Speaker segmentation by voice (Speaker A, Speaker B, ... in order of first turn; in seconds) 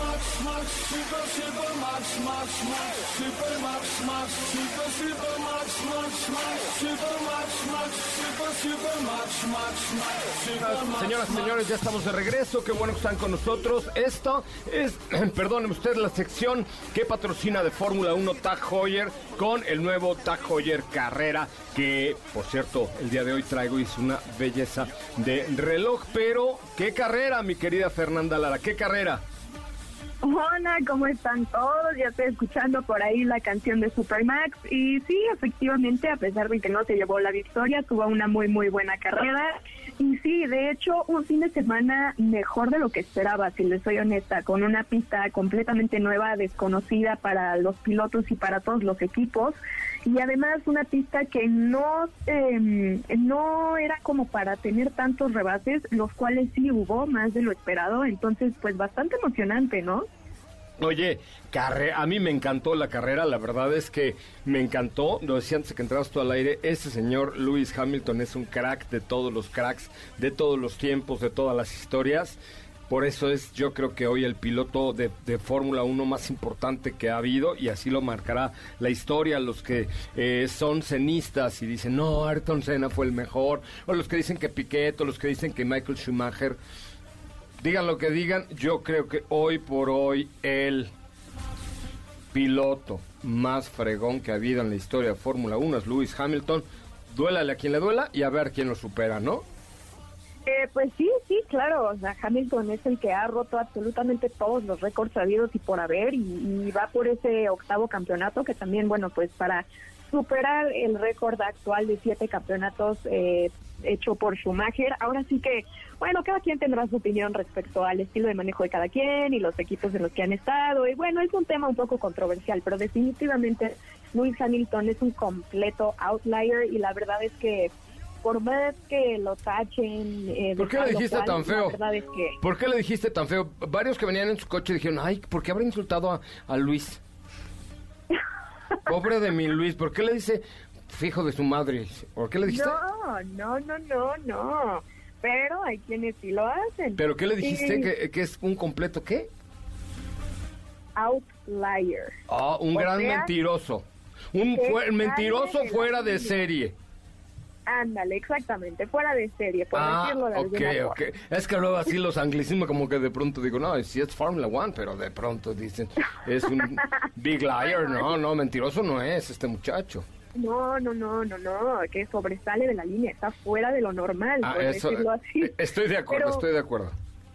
Speaker A: 10.4-29.2, 60.8-86.6, 87.6-90.9, 92.3-99.4, 130.6-131.8, 132.4-137.0, 138.9-142.8, 147.0-149.3, 152.3-156.7, 159.7-170.0, 174.4-176.9
Speaker B: 30.2-60.1, 100.5-132.4, 142.4-147.9, 150.9-152.1, 152.7-153.3, 154.5-156.3, 157.7-160.9, 170.3-175.5, 176.1-176.4